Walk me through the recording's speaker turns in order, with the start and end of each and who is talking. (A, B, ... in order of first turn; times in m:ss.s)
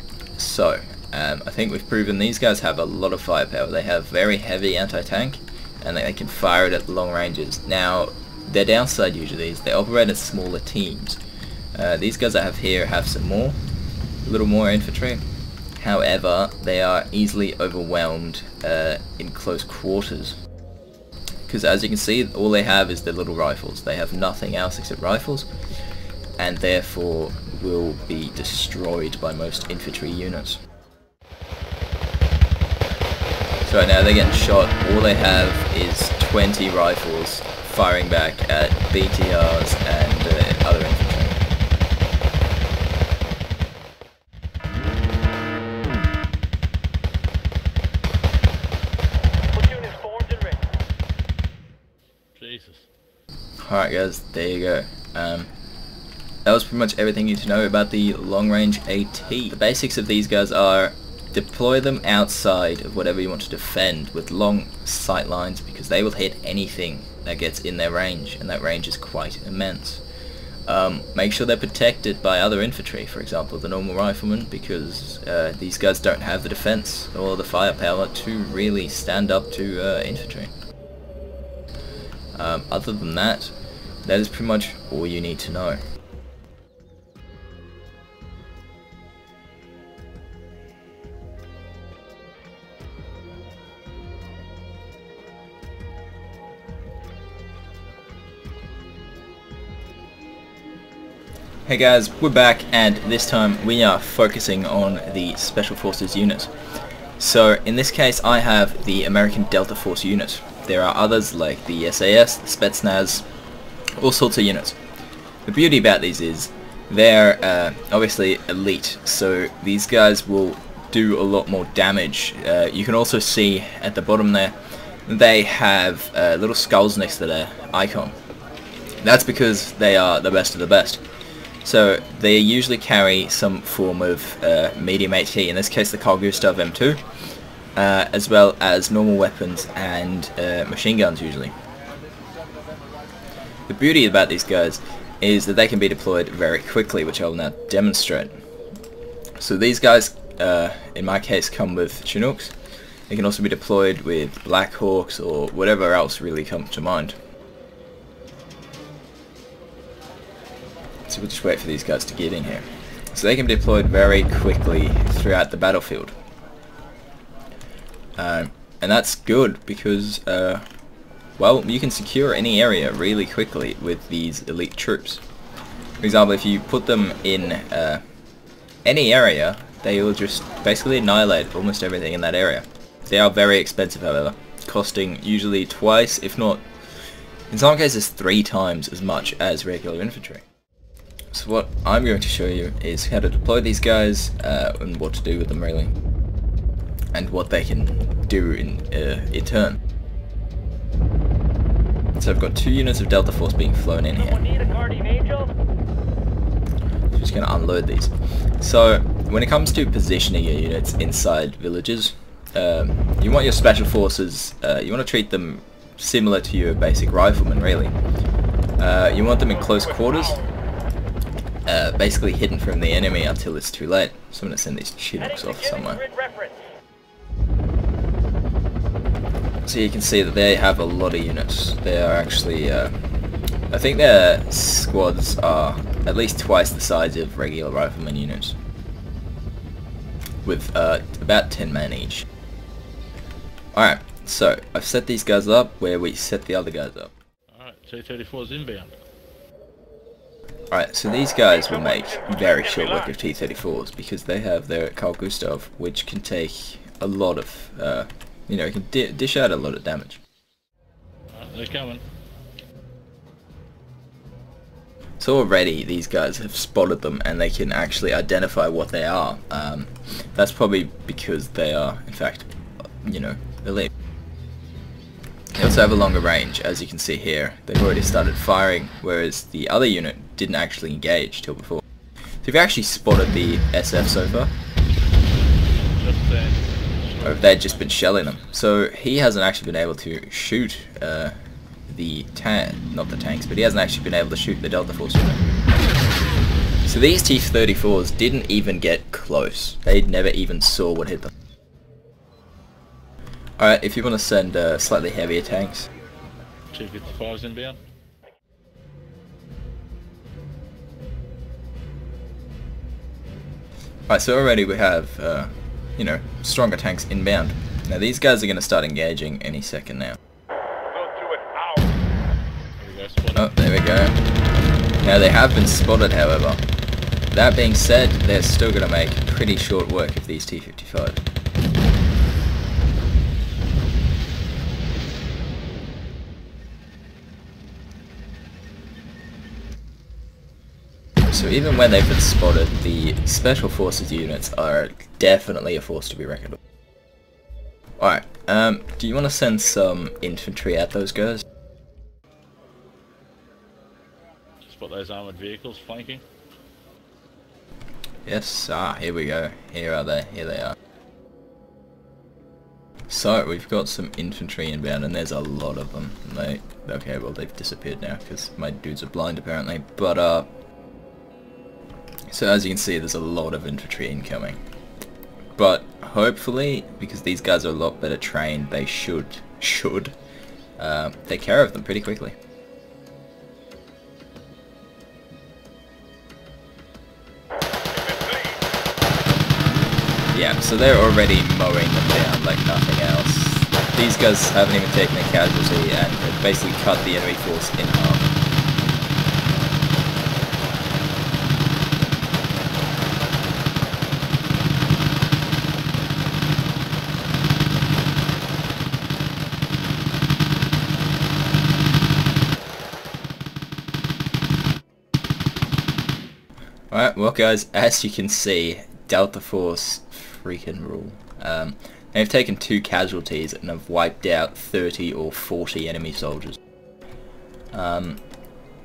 0:00.4-0:11.2 A
0:11.7-0:13.6 A
0:14.2-0:15.2 A
0:15.8-0:20.4 A
0:21.5-0:25.5 A
0:26.4-0:30.6 A
0:33.6-0:41.4 A
0:49.5-0:50.6 B
0:52.3-0:52.9 C
0:53.6-0:55.5 A
0:56.4-1:10.0 A
1:10.7-1:20.5 A
1:22.3-1:23.5 A
1:24.0-1:25.8 A
1:41.7-1:46.5 A
1:47.2-1:53.2 A
1:54.0-1:54.8 A
1:55.4-2:08.2 A
2:09.0-2:11.0 A
2:11.6-2:17.0 A
2:17.8-2:21.5 A
2:23.7-2:28.4 A
2:29.4-2:32.5 A
2:33.1-2:37.2 A
2:41.1-2:46.1 A
2:48.2-2:50.6 A
2:51.4-2:55.2 A
2:56.0-2:58.0 A
2:58.8-3:06.6 A
3:07.5-3:10.4 A
3:11.3-3:15.9 A
3:17.1-3:19.8 A
3:22.2-3:24.4 A
3:24.2-3:25.5 B
3:27.1-3:37.9 A
3:38.8-3:40.4 A
3:41.7-3:46.0 A
3:45.2-3:46.7 B
3:49.6-3:52.9 A
3:53.7-3:58.6 A
4:00.4-4:02.2 A
4:03.7-4:07.1 A
4:07.5-4:08.9 C
4:10.7-4:20.2 A
4:11.6-4:13.0 B
4:21.3-4:22.0 C
4:25.2-4:32.5 A
4:33.0-4:33.9 A
4:35.5-4:41.8 A
4:42.4-4:44.5 A
4:45.9-4:48.4 C
4:47.2-4:51.3 A
4:51.9-4:55.4 A
4:56.8-5:01.3 A
5:03.6-5:05.9 A
5:06.7-5:07.8 C
5:14.1-5:20.2 A
5:20.9-5:21.9 B
5:22.8-5:23.5 C
5:23.3-5:24.2 A
5:25.0-5:26.6 A
5:27.3-5:31.2 A
5:41.3-5:46.6 A
5:48.0-5:51.4 A
5:54.6-5:56.2 C
5:58.2-6:00.7 A
6:03.1-6:10.5 A
6:12.3-6:14.6 A
6:15.6-6:20.1 A
6:20.8-6:22.4 A
6:28.0-6:28.4 B
6:30.3-6:38.3 A
6:56.9-7:06.6 A
7:07.7-7:08.2 A